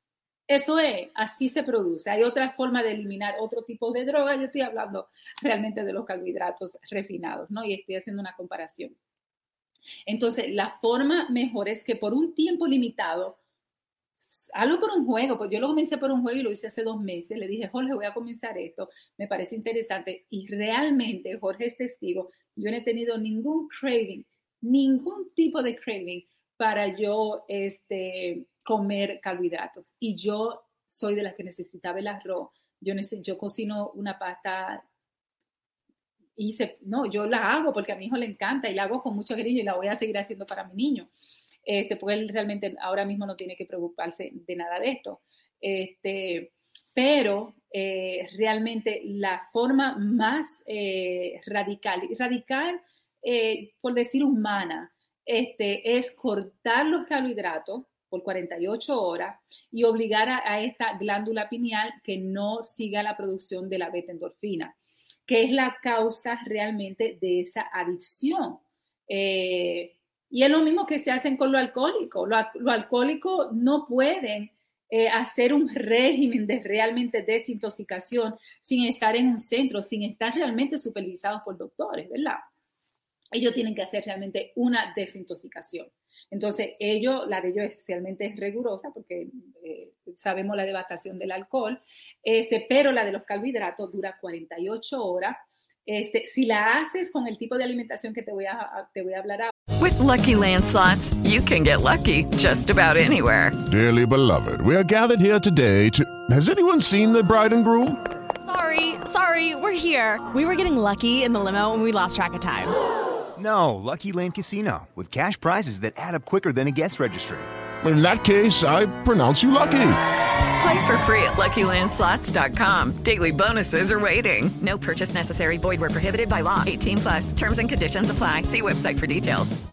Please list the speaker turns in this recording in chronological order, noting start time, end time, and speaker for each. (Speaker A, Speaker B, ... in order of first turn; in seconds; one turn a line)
Speaker A: 0.5-8.9
Speaker A: 10.1-13.4
Speaker A: 14.2-34.8
Speaker A: 36.4-41.1
Speaker A: 41.7-64.8
Speaker A: 65.3-82.4
Speaker A: 83.3-99.5
Speaker B: 99.8-103.6
Speaker C: 103.7-108.0
Speaker D: 108.4-112.8
Speaker E: 113.4-117.5
Speaker C: 117.8-120.0
Speaker B: 120.6-129.6